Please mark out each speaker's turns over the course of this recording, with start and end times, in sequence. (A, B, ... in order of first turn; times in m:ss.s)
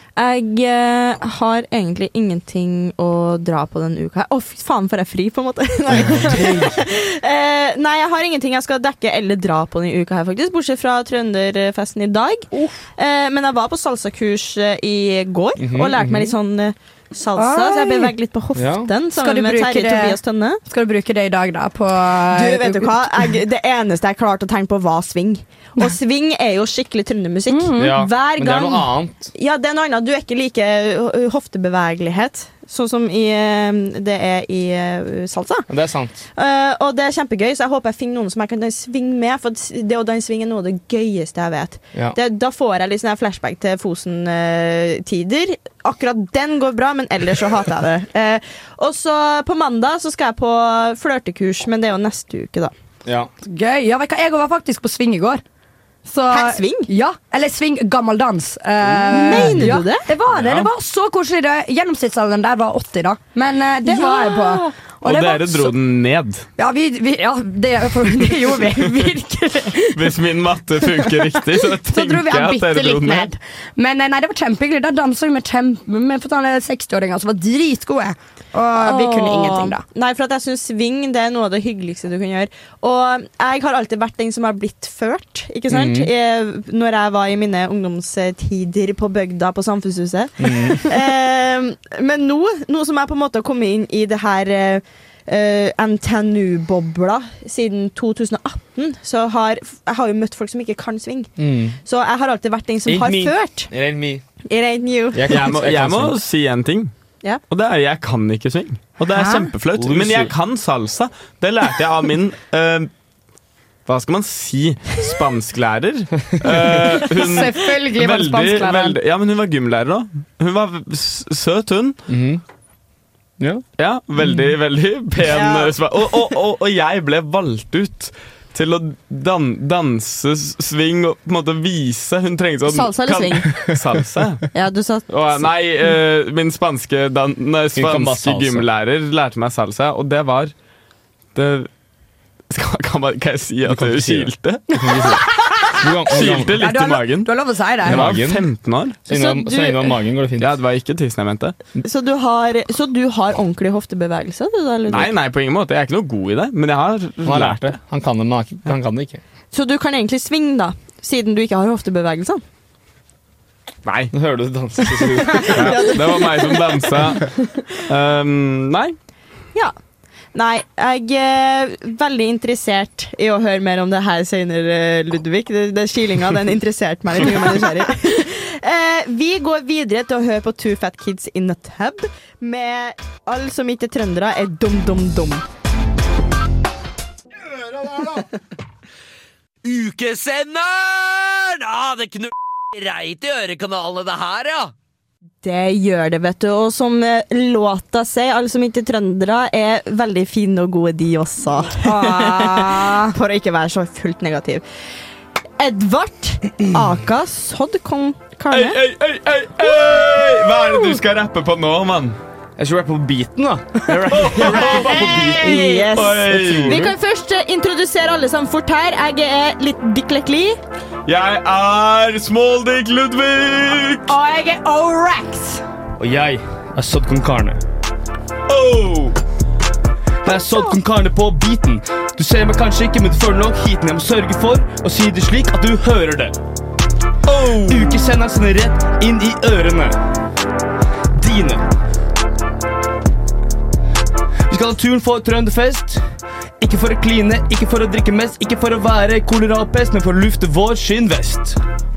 0:00.2-0:20.6 A
0:05.9-0:06.8 B
0:15.6-0:16.3 B
0:17.4-0:18.1 C
0:18.6-0:18.9 B
0:19.1-0:20.2 C
0:20.7-0:23.3 C
0:22.3-0:35.7 A
0:27.5-0:28.0 C
0:27.8-0:29.3 B
0:35.7-0:36.2 B
0:36.4-0:52.7 A
0:53.0-0:53.3 B
0:53.4-0:55.4 C
0:56.0-1:05.7 C
0:56.3-0:56.9 A
0:59.1-1:00.1 A
1:00.3-1:00.7 B
1:03.8-1:04.6 A
1:05.0-1:06.5 D
1:06.6-1:10.1 C
1:09.9-1:13.3 D
1:10.8-1:19.8 C
1:18.8-1:41.3 A
1:25.7-1:26.1 B
1:30.4-1:30.9 B
1:41.4-1:41.8 B
1:41.8-1:43.7 A
1:42.8-1:44.2 B
1:44.5-1:45.4 A
1:45.1-1:46.2 B
1:45.3-1:46.9 D
1:47.5-1:52.9 D
1:49.1-1:49.5 C
1:49.7-1:50.3 B
1:53.8-2:02.0 D
1:57.0-1:59.0 C
2:02.1-2:02.4 B
2:03.4-2:03.6 B
2:03.8-2:14.5 D
2:04.2-2:04.5 B
2:05.3-2:05.8 A
2:12.6-2:13.6 A
2:14.5-2:15.9 A
2:15.1-2:20.5 D
2:17.7-2:18.7 B
2:21.3-2:21.7 D
2:22.5-2:25.2 D
2:23.6-2:25.2 B
2:25.8-2:26.6 B
2:26.1-2:29.0 D
2:26.6-2:28.0 C
2:27.8-2:28.5 B
2:29.0-2:30.5 B
2:29.1-2:30.0 A
2:30.4-2:31.6 D
2:31.8-2:35.2 A
2:34.9-2:37.7 D
2:37.2-2:39.2 B
2:39.5-2:42.4 A
2:43.8-2:44.1 D
2:44.1-2:45.8 B
2:45.2-2:46.9 A
2:45.4-2:49.0 D
2:50.3-3:05.4 A
3:09.6-3:14.7 E
3:15.4-3:24.6 A
3:21.7-3:23.2 C
3:25.6-3:28.8 A
3:28.5-3:32.2 D
3:32.6-3:36.9 B
3:34.1-3:36.9 D
3:35.4-3:40.6 A
3:41.1-3:44.1 D
3:44.1-3:45.6 C
3:46.0-3:47.6 B
3:48.5-3:49.2 D
3:50.2-3:56.4 B
3:57.2-3:58.1 D
3:57.6-4:00.0 B
4:01.1-4:01.6 B
4:04.5-4:06.0 B
4:06.6-4:11.6 B